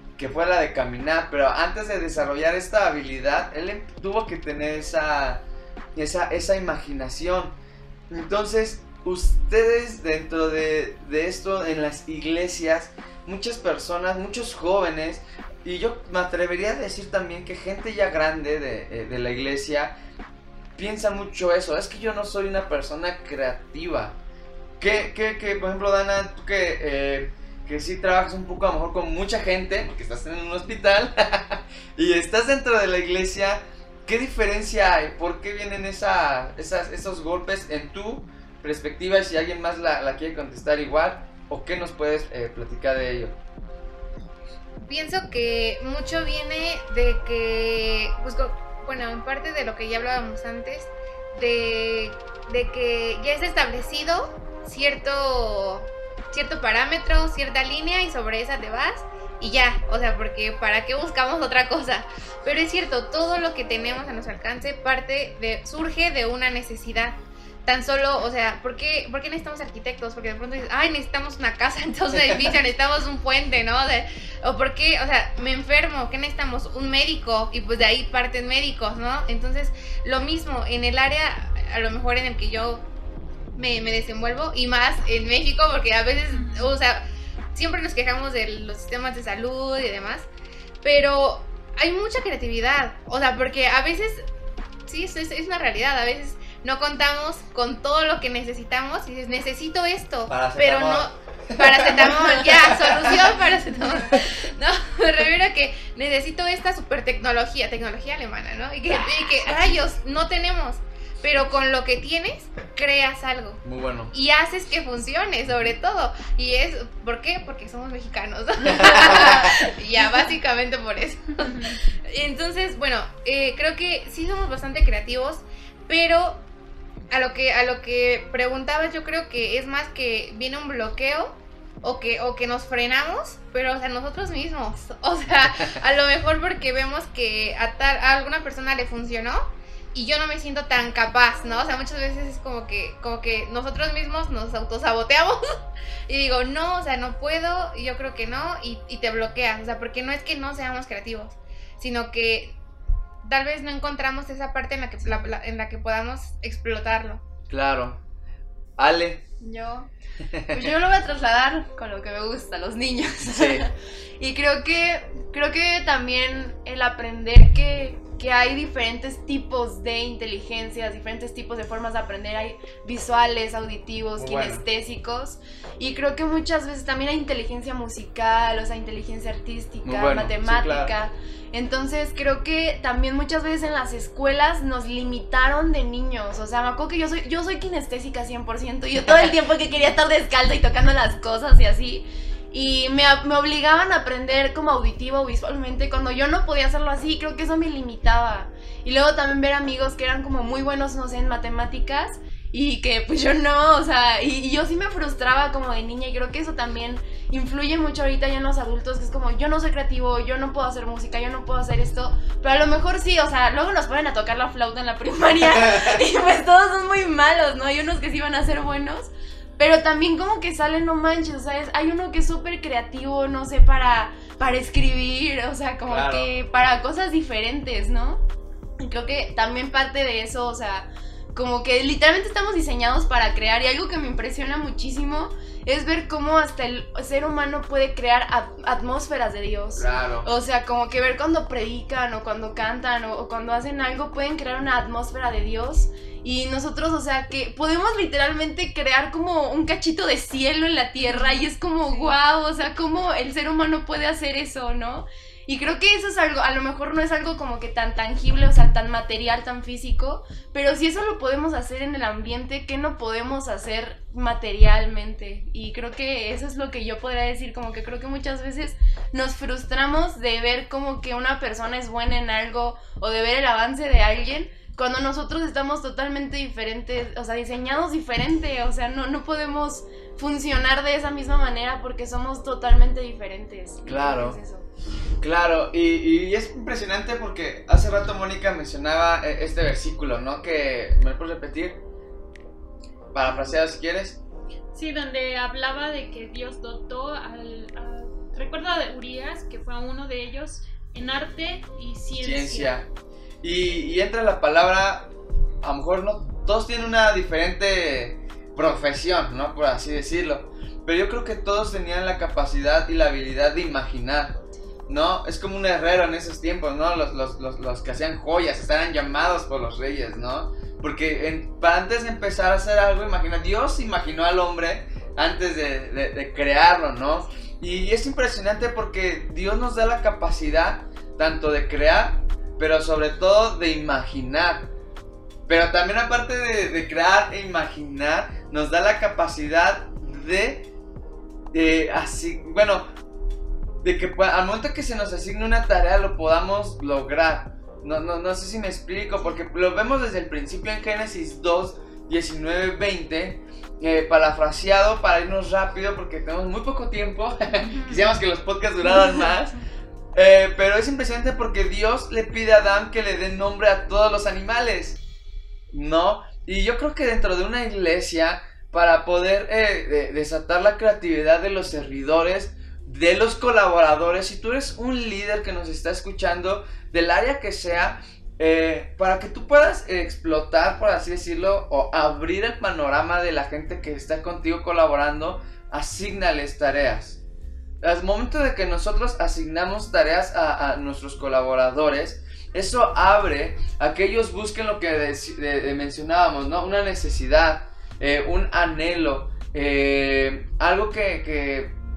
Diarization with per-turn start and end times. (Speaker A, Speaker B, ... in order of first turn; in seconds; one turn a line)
Speaker A: 0.2-7.6
Speaker A: 8.1-19.9
Speaker A: 20.8-24.2
Speaker A: 24.8-43.4
Speaker B: 44.8-82.9
Speaker A: 72.1-72.4
Speaker B: 83.5-90.3
Speaker C: 86.3-86.8
Speaker B: 90.8-94.3
Speaker B: 94.9-126.5
Speaker A: 100.3-103.3
Speaker A: 108.9-109.8
Speaker A: 113.6-114.1
Speaker A: 115.5-115.8
Speaker A: 118.6-119.6
Speaker C: 121.5-121.8
Speaker B: 127.1-145.4
Speaker B: 146.1-152.6
Speaker B: 153.2-157.2
Speaker A: 157.5-158.0
Speaker A: 158.8-159.2
Speaker A: 160.2-160.7
Speaker D: 160.5-228.2
Speaker A: 163.3-163.7
Speaker A: 174.2-174.6
Speaker A: 179.8-180.9
Speaker A: 215.6-216.0
Speaker A: 225.9-226.3
Speaker D: 228.8-284.7
Speaker A: 239.8-240.3
Speaker C: 251.1-252.1
Speaker A: 283.9-284.4
Speaker A: 285.2-291.8
Speaker A: 293.1-294.2
Speaker C: 294.7-302.8
Speaker A: 302.2-302.9
Speaker A: 303.4-305.1
Speaker A: 305.6-334.7
Speaker A: 335.5-340.7
Speaker A: 341.5-342.9
Speaker A: 343.8-359.6
Speaker A: 360.1-365.0
Speaker A: 365.7-387.2
Speaker A: 387.8-401.8